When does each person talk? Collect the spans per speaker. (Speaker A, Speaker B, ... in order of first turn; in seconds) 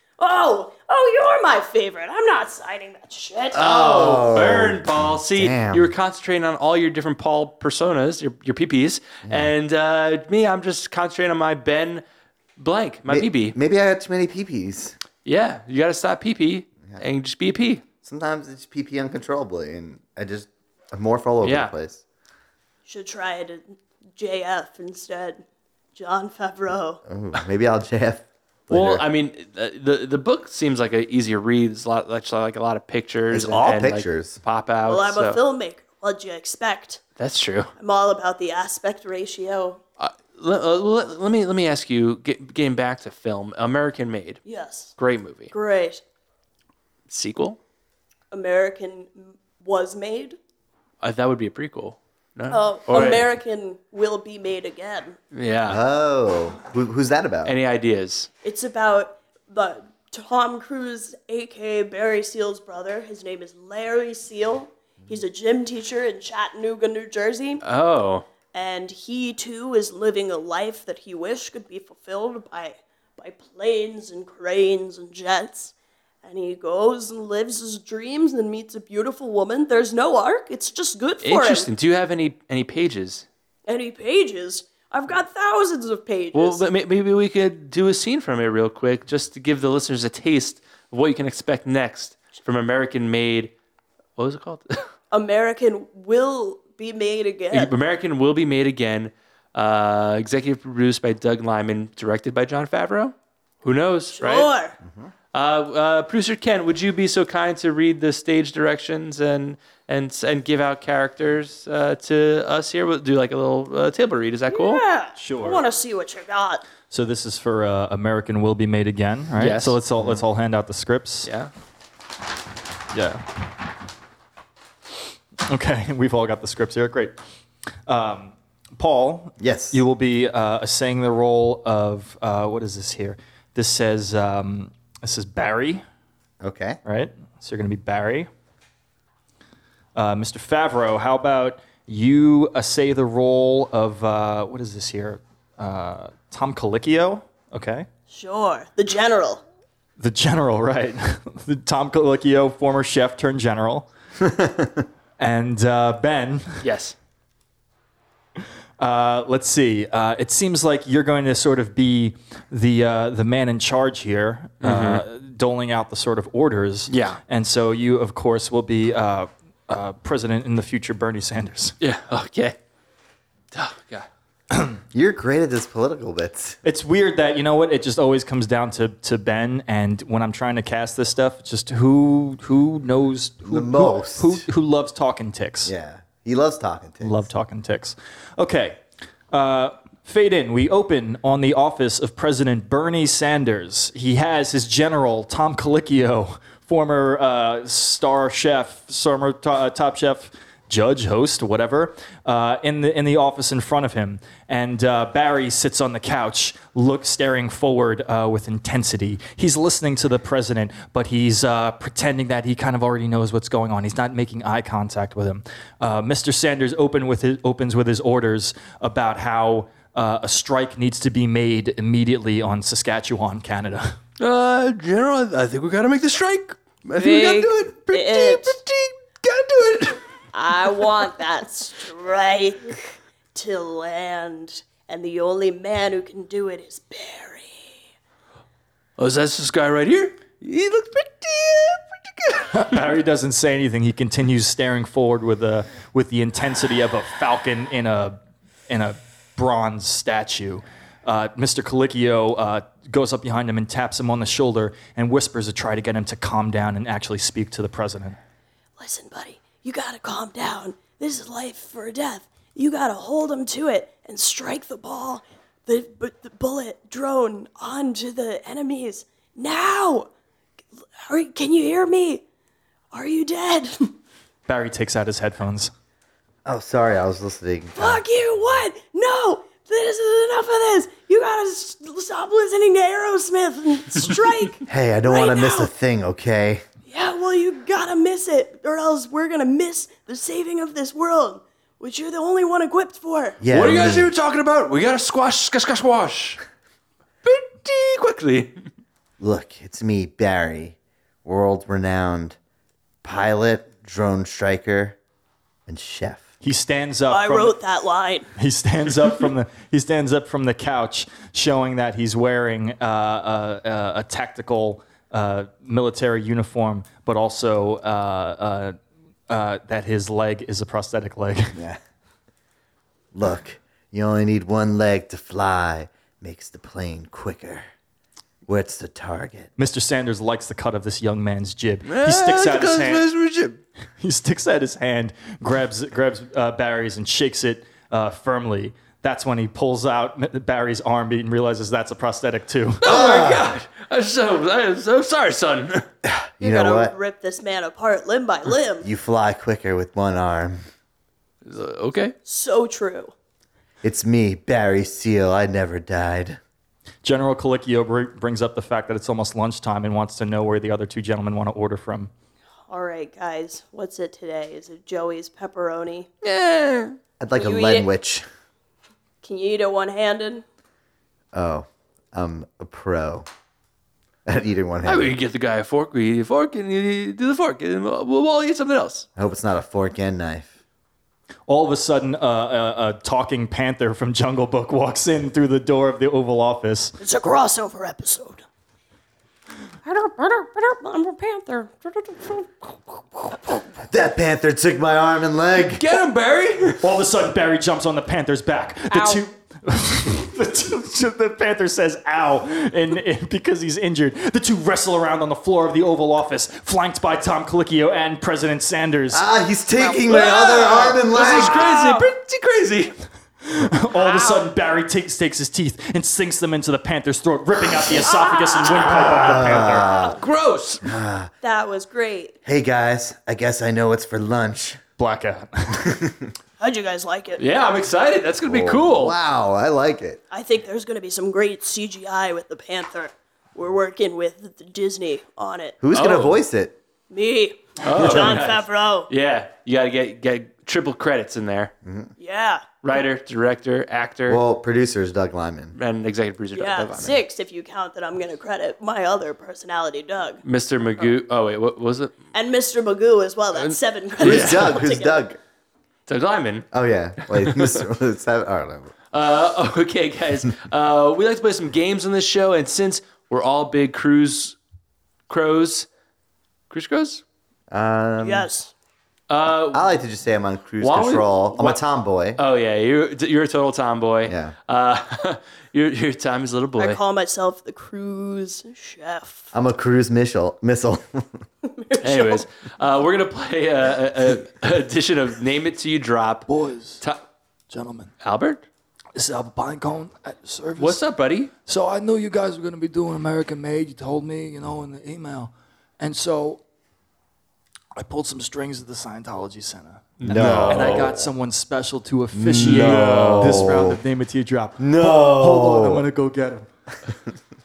Speaker A: 0.2-3.7, 22.9-25.4, 25.9-27.0, 34.9-37.0, 37.8-39.8, 44.4-44.9, 45.5-46.0, 48.3-50.4, 52.5-55.2, 58.4-67.6, 68.5-81.7, 83.7-86.6, 95.1-97.7, 104.1-104.8, 114.5-116.6, 148.1-149.4, 227.0-228.6, 230.3-232.8, 233.3-237.8, 258.8-270.1, 271.0-272.2, 272.9-273.9, 277.7-285.7, 286.9-293.4, 307.1-308.3, 346.4-348.9, 352.2-353.1, 362.7-366.1, 367.3-367.9, 369.2-370.4, 387.0-388.4, 389.8-393.6, 418.0-419.0, 421.4-422.4, 426.6-427.4, 430.3-435.8, 437.1-439.1, 442.2-442.8, 446.5-450.4, 452.3-455.3, 468.2-468.7, 476.8-479.5, 481.6-482.4
Speaker B: 3.5-5.9, 9.2-9.5, 13.1-14.9, 18.0-22.0, 27.0-29.0, 33.3-34.4, 55.7-57.5, 104.8-105.1, 120.0-120.2, 129.4-129.8, 136.4-136.8, 154.2-154.8, 174.9-176.6, 183.4-184.4, 185.6-187.3, 276.4-278.0, 284.7-286.6, 293.4-294.1, 299.2-302.4, 303.0-305.0, 305.7-306.3, 321.5-321.8, 323.1-327.6, 328.5-329.5, 342.8-343.5, 346.0-346.9, 348.8-350.6, 353.8-356.4, 367.2-368.2, 371.3-373.3, 374.2-375.1, 379.1-380.5, 393.9-395.8, 409.1-411.7, 418.9-420.2, 420.8-421.3, 422.4-424.8, 425.8-426.3, 428.5-430.2, 435.8-436.8, 438.1-438.4, 441.8-442.1, 444.3-445.7, 446.8-447.2, 454.2-455.4, 456.7-458.9, 467.7-468.5, 469.7-472.4, 474.2-474.5, 479.5-481.4, 500.3-501.3, 502.3-504.0, 504.8-506.0
Speaker C: 3.5-12.0, 12.6-13.6, 15.2-17.8, 21.4-21.7, 28.7-35.4, 37.2-37.7, 40.0-44.4, 45.0-45.5, 47.1-47.6, 51.0-53.3, 55.3-55.8, 57.4-58.3, 67.6-68.2, 81.2-83.2, 86.3-93.5, 94.2-94.8, 97.5-104.5, 105.3-114.8, 119.4-119.8, 121.2-121.5, 156.6-156.9, 164.6-165.0, 166.9-167.2, 171.8-172.6, 173.5-174.1, 224.2-230.0, 239.0-242.8, 293.5-296.4, 297.2-298.6, 331.8-333.6, 342.8-345.8, 351.4-352.1, 366.2-367.0, 374.8-379.1, 395.7-396.9, 410.1-413.0, 419.4-420.9, 427.4-429.1, 435.9-436.4, 437.8-441.7, 442.8-444.4, 445.7-447.1, 450.4-452.2, 453.5-454.8, 456.1-457.8, 459.1-464.6, 465.3-465.9, 466.7-467.2, 469.3-469.9, 470.8-471.8, 472.4-477.0, 482.0-486.5, 488.2-488.6, 490.8-491.5, 500.2-501.1, 502.8-503.4
Speaker D: 115.2-115.6, 116.9-121.3, 122.9-123.2, 125.5-127.2, 127.9-135.8, 136.8-138.3, 139.9-147.9, 150.0-153.9, 155.2-156.5, 158.8-171.7, 176.6-185.7, 187.0-223.8, 242.6-258.1, 274.5-275.7, 306.4-307.5, 308.4-318.8, 319.3-321.6, 329.6-333.1, 334.0-342.8, 357.0-362.1, 381.5-386.9, 396.8-409.2, 413.9-419.8, 425.0-425.5, 500.4-501.3, 502.5-506.5
Speaker E: 414.0-414.4, 486.5-487.0, 487.7-488.1, 489.1-491.0, 491.6-496.6, 497.9-504.2, 505.0-506.6